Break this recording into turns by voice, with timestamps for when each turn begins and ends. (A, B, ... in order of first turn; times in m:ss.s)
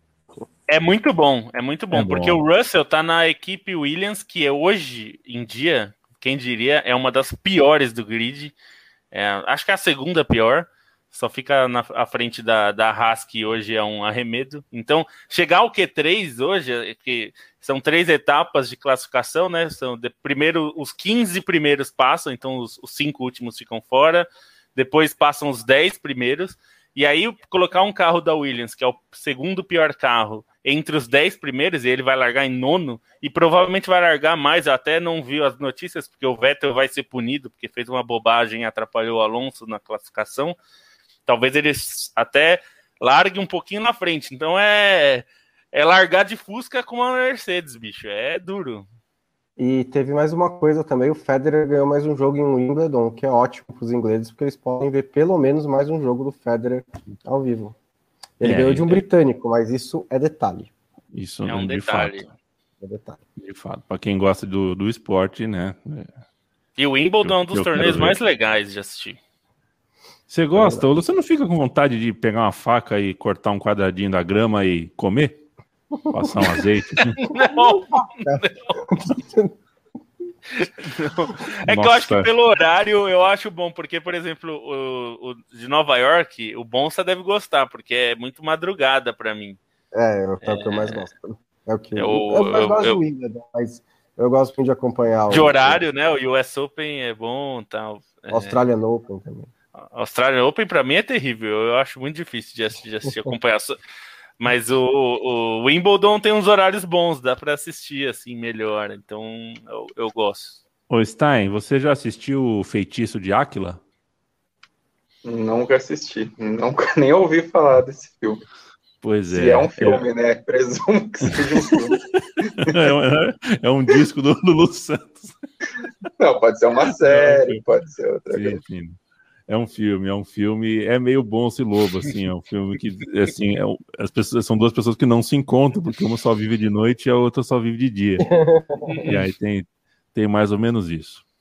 0:00.7-0:08.6 A
0:01.9-0:02.4 B
0:09.1-0:40.6 A
0:41.3-0:48.9 A
0:49.6-0:57.8 C
0:58.4-1:00.7 C
0:58.4-0:59.0 B
1:01.1-1:02.3 B
1:01.5-1:02.3 A
1:02.8-1:03.2 C
1:03.4-1:06.1 B
1:06.8-1:09.2 A
1:07.2-1:08.2 B
1:10.3-1:15.4 B
1:10.6-1:10.8 C
1:16.1-1:17.2 B
1:17.1-1:19.0 A
1:17.4-1:19.5 C
1:20.6-1:29.6 A
1:21.7-1:22.3 B
1:29.9-1:35.8 C
1:30.4-1:31.1 A
1:32.0-1:33.0 A
1:35.3-1:38.6 A
1:38.3-1:39.5 C
1:39.8-1:43.8 A
1:44.4-1:50.6 A
1:50.9-1:53.8 B
1:55.2-1:58.4 D
1:59.0-2:00.0 B
1:59.3-2:02.8 D
2:01.4-2:05.4 B
2:06.2-2:08.6 D
2:07.0-2:07.6 B
2:08.3-2:18.3 B
2:18.3-2:19.0 C
2:18.9-2:19.3 A
2:19.1-2:21.2 B